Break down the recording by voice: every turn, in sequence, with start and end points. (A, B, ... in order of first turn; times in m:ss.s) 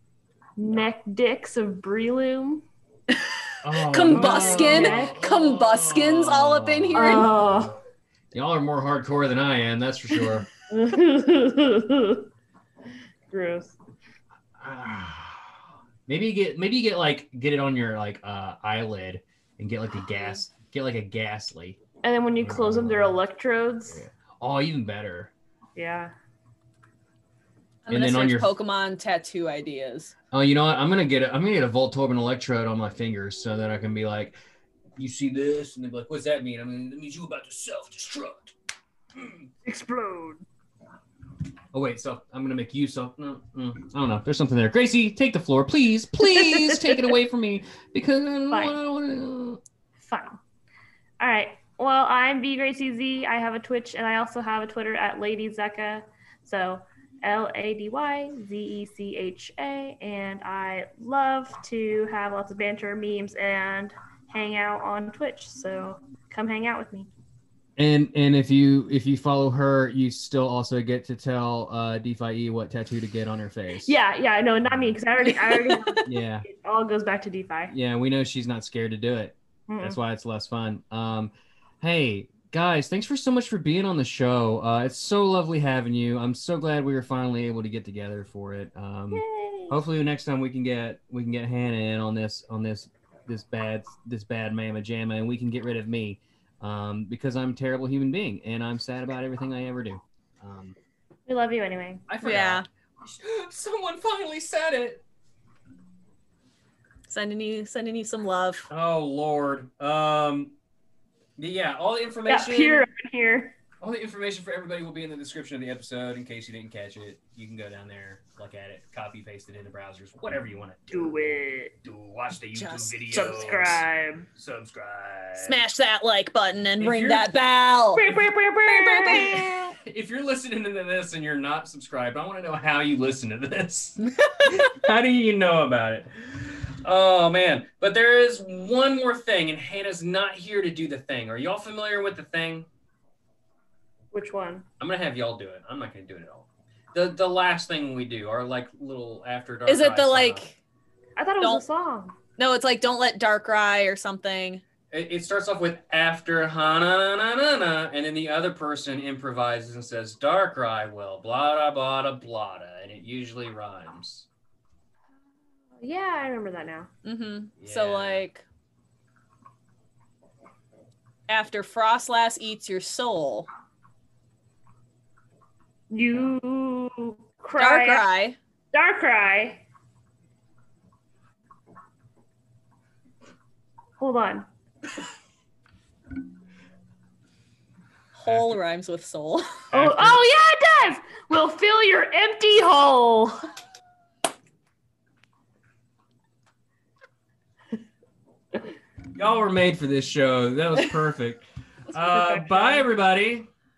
0:00.6-0:02.6 A
0:03.1-0:07.3 B
0:03.6-0:07.7 C
0:04.1-0:05.2 A
0:06.9-0:07.7 A
0:08.3-0:10.5 C
0:10.7-0:12.3 A
0:13.3-0:13.7 A
0:14.6-0:15.5 C
0:16.1-0:21.8 C
0:22.0-0:24.0 A
0:22.4-0:23.2 C
0:23.9-0:25.3 C
0:25.8-0:26.1 A
0:27.8-0:30.1 B
0:27.9-0:28.6 C
0:30.3-0:34.4 C
0:35.0-0:38.5 C
0:39.6-0:40.4 A
0:41.7-0:49.6 C
0:46.2-0:47.1 A
0:48.5-0:48.8 A
0:50.0-0:50.4 A
0:51.2-1:07.1 A
1:07.8-1:14.0 C
1:13.8-1:17.7 A
1:14.6-1:15.0 C
1:15.2-1:16.0 B
1:16.0-1:16.4 C
1:17.7-1:40.7 C
1:19.7-1:20.0 A
1:29.1-1:29.8 A
1:41.3-1:42.1 A
1:42.1-1:45.0 C
1:42.2-1:42.6 B
1:47.1-1:48.7 B
1:48.7-1:50.5 C
1:51.4-1:52.8 C
1:52.3-1:53.5 A
1:53.8-2:05.6 C
2:00.9-2:01.7 A
2:02.5-2:03.0 B
2:03.1-2:04.3 A
2:05.4-2:09.7 B
2:06.8-2:07.3 C
2:07.9-2:09.6 A
2:09.8-2:22.7 C
2:24.1-2:24.6 A
2:24.8-2:30.4 C
2:29.6-2:30.6 B
2:31.2-2:32.2 A
2:32.4-2:34.6 B
2:34.9-2:44.3 C
2:45.8-2:46.9 A
2:47.0-2:48.4 B
2:47.6-2:48.2 C
2:51.3-2:53.5 B
2:55.9-2:58.0 A
2:57.6-2:58.4 B
2:58.7-2:59.6 A
3:04.0-3:04.5 A
3:08.1-3:09.4 B
3:08.3-3:08.6 C
3:09.7-3:10.2 C
3:09.7-3:13.5 A
3:19.2-3:23.5 C
3:22.0-3:22.9 A